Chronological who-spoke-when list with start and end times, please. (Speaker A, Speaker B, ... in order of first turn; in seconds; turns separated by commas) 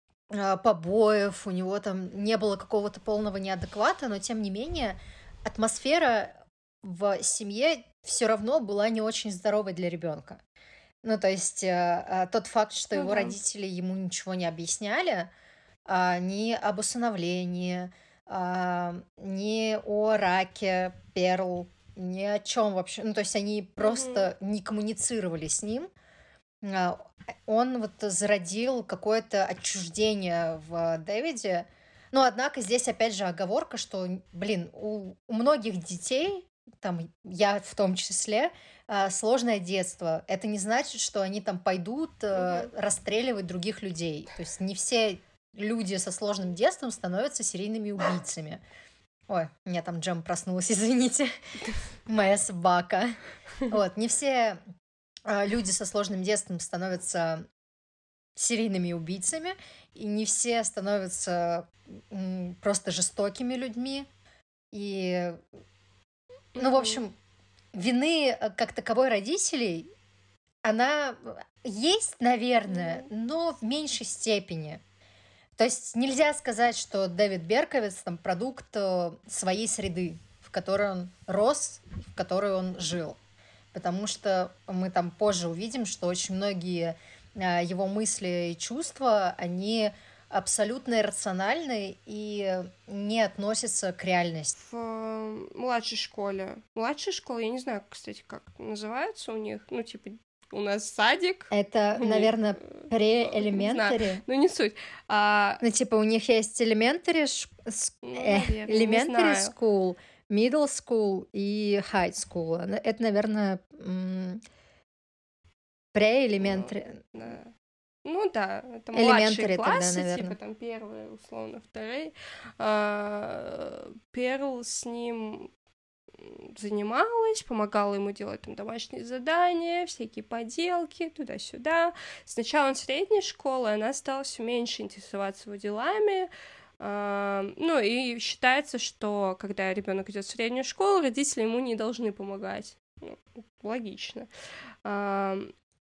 Speaker A: 0.3-10.4, Speaker A: 11.0-15.3, Speaker B: 12.9-13.4, Speaker A: 15.9-25.9, Speaker B: 23.8-24.3, Speaker A: 26.6-48.6, Speaker B: 42.4-42.7, Speaker A: 49.3-51.3, Speaker A: 52.1-54.6, Speaker A: 55.2-57.5, Speaker A: 58.4-64.1, Speaker A: 64.7-65.4, Speaker B: 66.5-67.0, Speaker A: 66.6-67.1, Speaker A: 67.7-69.9, Speaker A: 70.6-74.8, Speaker B: 72.7-73.1, Speaker A: 75.6-83.2, Speaker A: 83.7-94.5, Speaker B: 94.6-105.6, Speaker A: 101.5-104.2, Speaker A: 105.6-114.4, Speaker B: 108.0-109.5, Speaker A: 115.9-117.0, Speaker B: 116.4-117.5, Speaker B: 118.0-125.5, Speaker A: 118.9-120.4, Speaker B: 126.2-144.3, Speaker B: 144.8-145.5